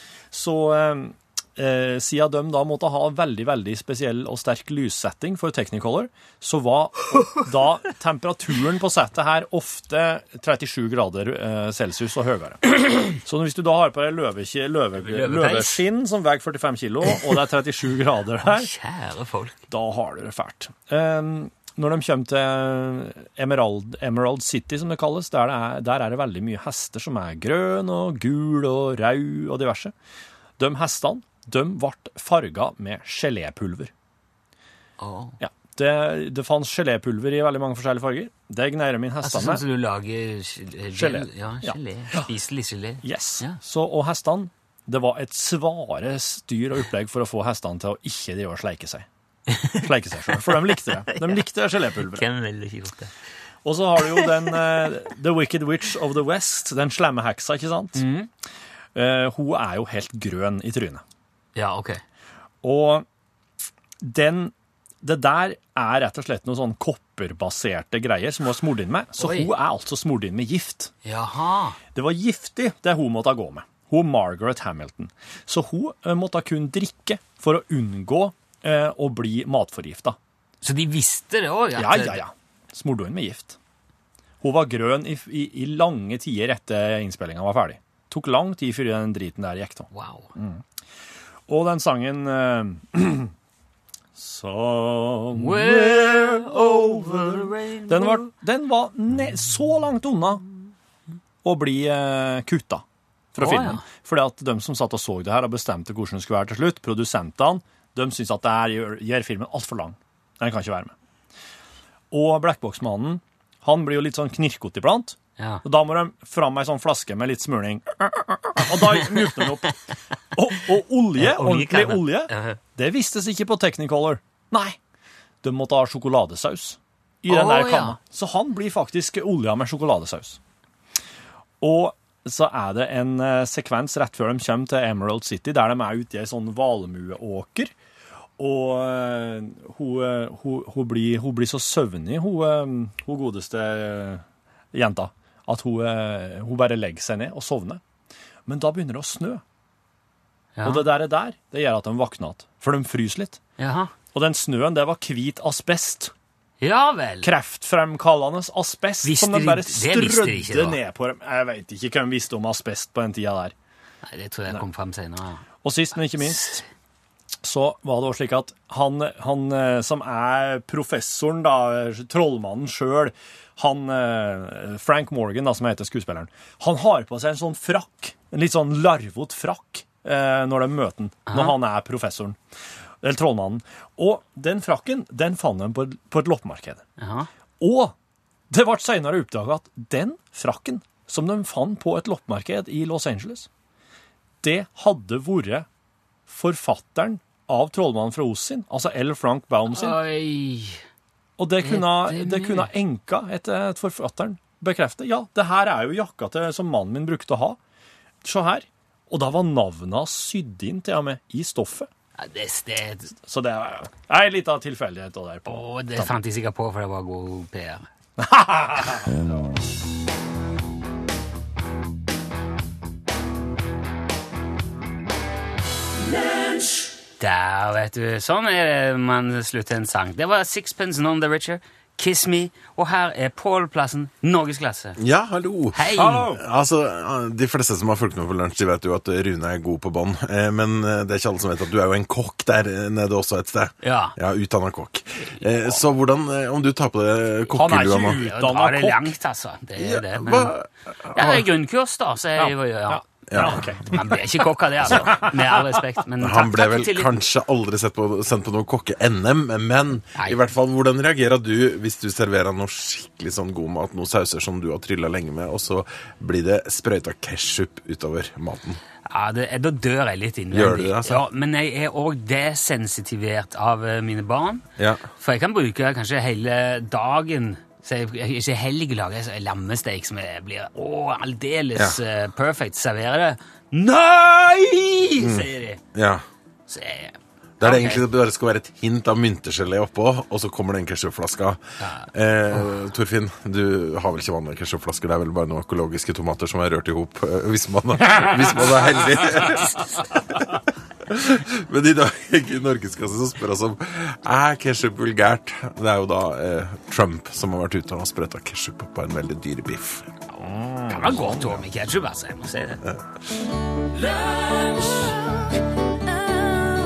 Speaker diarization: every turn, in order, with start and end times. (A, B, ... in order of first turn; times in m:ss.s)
0:00.3-0:18.7 A
0:15.0-0:15.8 B
0:18.4-0:19.6 B
0:19.7-0:29.9 A
0:30.6-0:33.9 A
0:35.0-0:35.4 B
0:35.4-0:39.6 A
0:39.2-0:43.6 B
0:40.9-0:42.3 A
0:43.0-0:49.1 A
0:49.5-0:51.4 B
0:49.7-0:52.2 A
0:52.0-0:53.1 B
0:53.6-0:58.0 A
0:58.0-0:58.3 B
0:58.9-1:01.0 A
1:01.6-1:02.0 B
1:02.6-1:03.1 A
1:04.0-1:10.9 A
1:09.2-1:09.5 B
1:11.0-1:11.8 B
1:11.9-1:20.2 A
1:20.6-1:22.2 B
1:21.8-1:23.6 A
1:24.4-1:30.6 A
1:29.9-1:30.3 B
1:31.5-1:33.3 A
1:34.2-1:40.4 A
1:35.3-1:38.3 B
1:41.4-1:50.9 A
1:43.4-1:43.8 B
1:52.1-1:59.7 A
1:55.4-1:55.6 B
1:58.9-1:59.4 B
2:00.4-2:04.8 A
2:01.2-2:02.6 B
2:05.4-2:10.4 A
2:07.3-2:08.0 B
2:11.6-2:17.7 A
2:18.4-2:27.8 A
2:28.4-2:29.4 A
2:30.6-2:30.9 B
2:30.6-2:33.4 A
2:33.6-2:33.9 B
2:34.1-2:36.1 A
2:36.6-2:37.3 B
2:37.2-2:43.6 A
2:39.0-2:40.8 B
2:44.0-2:45.4 B
2:45.6-2:46.6 A
2:46.2-2:46.6 B
2:47.4-3:02.4 A
3:01.3-3:01.6 B
3:03.0-3:06.8 A
3:07.0-3:07.3 B
3:07.6-3:07.9 A
3:08.5-3:13.5 A
3:14.4-3:15.7 A
3:16.3-3:20.0 A
3:19.7-3:20.8 B
3:21.4-3:27.6 A
3:21.6-3:22.7 B
3:28.2-3:31.9 A
3:32.2-3:33.1 B
3:33.2-3:36.2 A
3:35.5-3:37.9 B
3:38.2-3:39.1 A
3:47.2-3:55.0 B
3:55.0-4:08.2 C
3:55.7-3:56.4 B
4:03.8-4:04.2 B
4:05.3-4:05.8 B
4:07.5-4:09.1 A
4:07.6-4:10.6 B
4:09.8-4:11.4 C
4:11.1-4:17.1 B
4:12.4-4:14.0 A
4:13.3-4:13.7 C
4:14.9-4:15.6 A
4:16.2-4:28.8 C
4:29.0-4:45.8 B
4:30.5-4:31.2 C
4:34.8-4:35.1 C
4:45.2-4:46.2 C
4:46.7-4:48.0 B
4:47.6-5:10.2 C
4:51.8-4:52.1 B
5:10.3-5:11.6 A
5:10.9-5:12.8 B
5:14.2-5:15.0 B